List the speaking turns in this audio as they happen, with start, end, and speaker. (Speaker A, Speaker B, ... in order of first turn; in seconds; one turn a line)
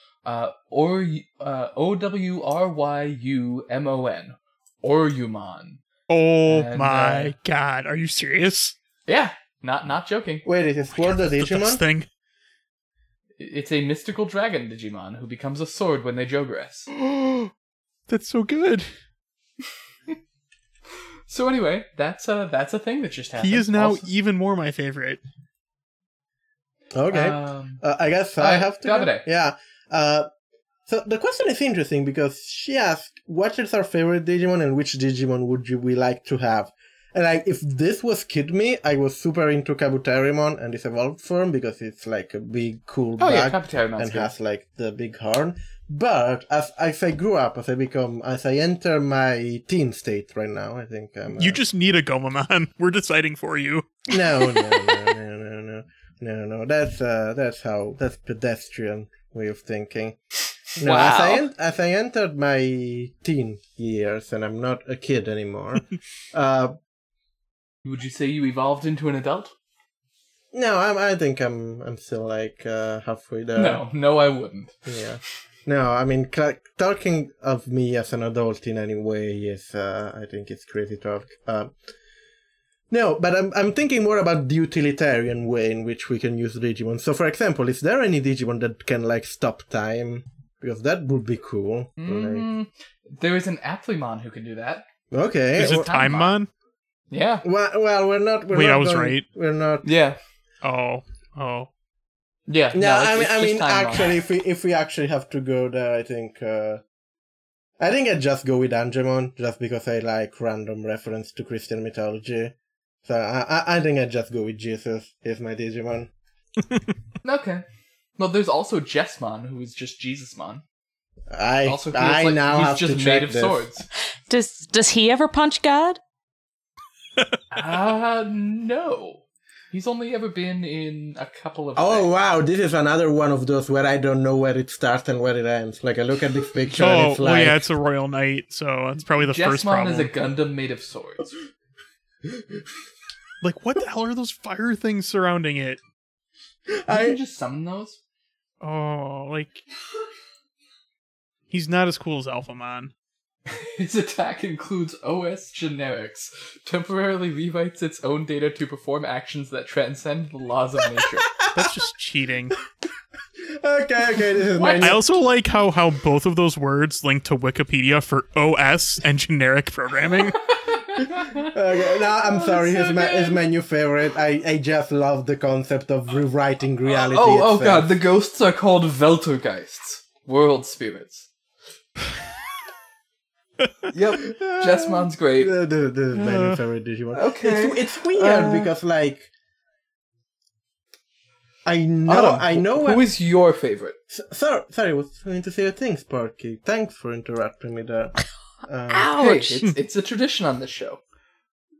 Speaker A: 0.2-5.8
Speaker B: 6.1-8.7
Speaker A: 6.4-7.3
Speaker A: 9.1-10.4
Speaker C: 10.4-11.8
Speaker B: 10.9-12.1
Speaker A: 13.4-16.9
Speaker B: 17.0-17.5
Speaker B: 18.1-18.9
Speaker A: 21.3-24.1
Speaker B: 23.4-25.2
Speaker C: 26.9-30.3
Speaker A: 27.1-27.8
Speaker A: 28.4-29.3
Speaker C: 30.9-51.6
Speaker A: 43.2-44.3
Speaker B: 51.4-54.0
Speaker C: 54.1-60.2
Speaker C: 60.8-66.7
Speaker D: 60.8-61.5
Speaker A: 67.8-69.5
Speaker C: 70.5-73.8
Speaker A: 73.5-74.8
Speaker C: 74.8-81.7
Speaker C: 82.9-92.5
Speaker A: 92.0-94.8
Speaker C: 95.1-95.9
Speaker A: 95.6-96.4
Speaker B: 95.6-96.5
Speaker A: 97.1-97.4
Speaker C: 97.4-99.8
Speaker B: 98.5-99.2
Speaker A: 99.8-100.2
Speaker B: 100.6-101.7
Speaker A: 102.5-104.1
Speaker C: 102.7-106.8
Speaker C: 107.8-112.5
Speaker C: 113.0-116.1
Speaker A: 117.2-117.6
Speaker A: 118.2-120.6
Speaker C: 121.3-123.6
Speaker A: 121.6-123.8
Speaker D: 124.3-126.0
Speaker A: 127.5-132.1
Speaker C: 131.8-137.6
Speaker B: 136.7-140.1
Speaker A: 139.1-141.3
Speaker B: 143.4-145.8
Speaker C: 146.7-147.2
Speaker A: 146.9-148.0
Speaker B: 148.6-149.6
Speaker B: 151.5-152.9
Speaker A: 153.5-161.3
Speaker B: 161.5-162.6
Speaker C: 163.4-165.0
Speaker A: 164.5-164.9
Speaker B: 164.8-170.5
Speaker A: 170.9-171.5
Speaker C: 171.4-177.9
Speaker A: 172.3-173.4
Speaker A: 177.1-181.3
Speaker A: 183.9-185.5
Speaker C: 184.2-189.3
Speaker B: 186.1-186.5
Speaker A: 187.1-188.7
Speaker C: 191.6-193.0
Speaker A: 192.1-193.9
Speaker C: 194.1-199.2
Speaker D: 198.9-199.6
Speaker A: 199.1-201.0